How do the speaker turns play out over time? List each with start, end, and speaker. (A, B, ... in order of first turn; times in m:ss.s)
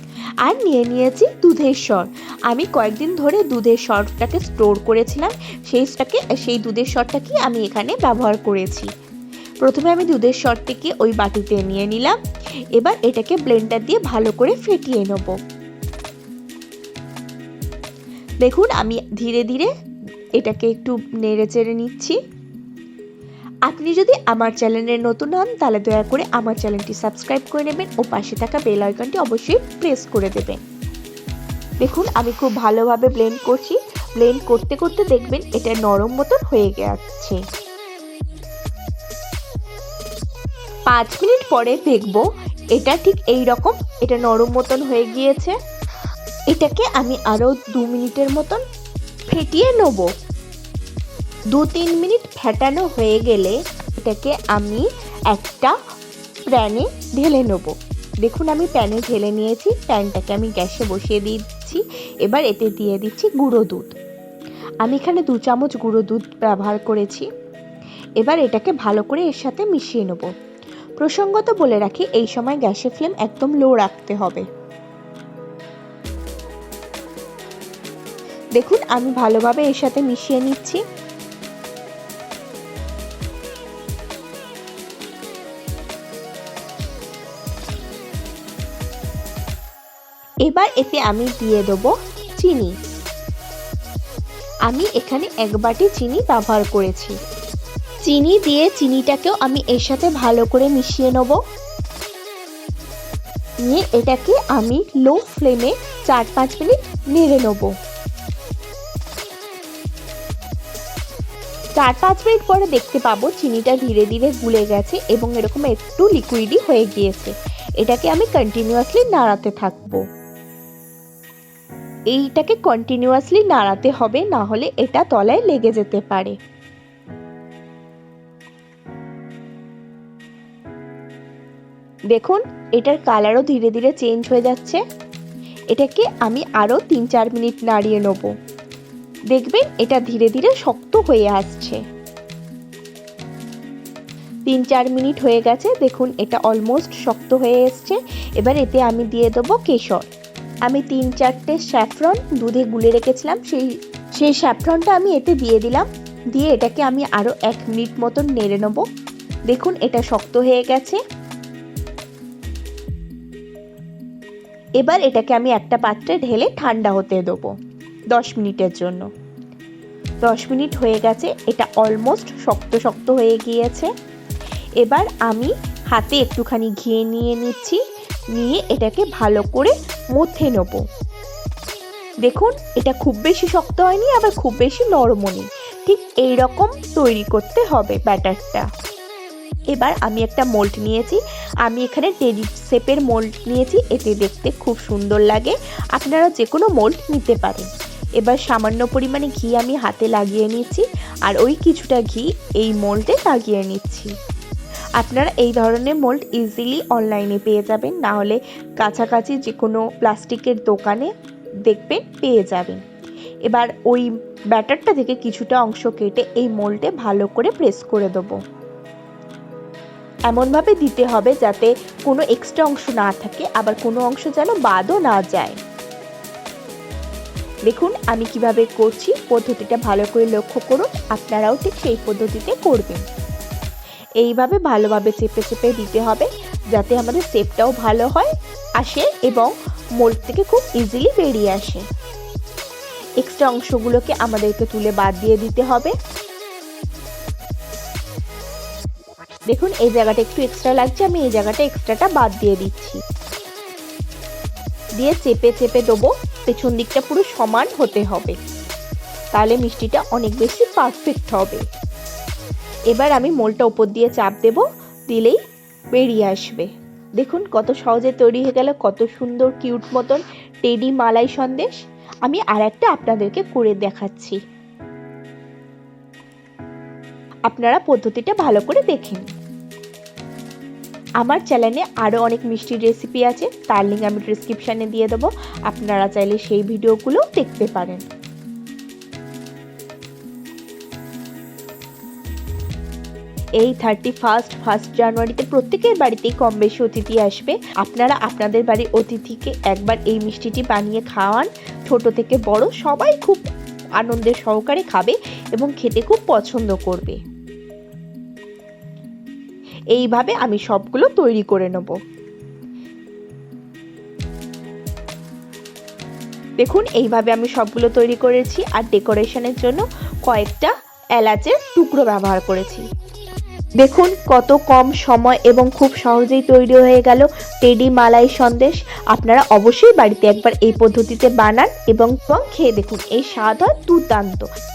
0:00.4-0:08.9 A
0:09.6-0:12.2 A
0:12.8-0:15.4 A
0:18.4-0:19.7 A
0:20.4-0:22.2 A
0:23.7-0:30.6 A
0:31.8-0:37.4 A
0:40.9-0:45.6 A
0:46.5-0:48.6 A
0:49.3-0:50.1 A
0:51.5-0:55.7 A
0:56.5-1:03.9 A
1:04.8-1:07.3 A
1:08.2-1:10.3 A
1:11.0-1:14.4 A
1:18.6-1:20.8 A
1:30.5-1:32.7 A
1:34.7-1:37.1 A
1:38.0-1:41.4 A
1:43.7-1:47.7 A
1:51.8-2:00.0 A
2:02.1-2:06.4 A
2:12.1-2:14.8 A
2:15.7-2:18.3 A
2:19.3-2:21.8 A
2:24.5-2:30.1 A
2:30.7-2:38.8 A
2:39.5-2:41.0 A
2:44.8-2:47.5 A
2:48.1-2:49.0 A
2:50.2-2:53.9 A
2:54.8-2:57.8 A
2:58.3-3:00.8 A
3:02.2-3:08.7 A
3:09.7-3:17.7 A
3:18.2-3:24.1 A
3:25.0-3:31.1 A
3:31.7-3:32.8 A
3:33.5-3:38.4 A
3:40.3-3:45.6 A
3:47.7-3:53.0 A
3:54.2-4:01.8 A
4:03.2-4:05.9 A
4:09.5-4:13.0 A
4:15.0-4:18.4 A
4:19.3-4:21.6 A
4:22.9-4:25.4 A
4:26.0-4:34.4 A
4:37.5-4:39.3 A
4:41.2-4:48.1 A
4:53.6-5:03.4 A
5:04.0-5:07.2 A
5:09.9-5:11.9 A
5:16.6-5:22.8 A
5:23.8-5:34.5 A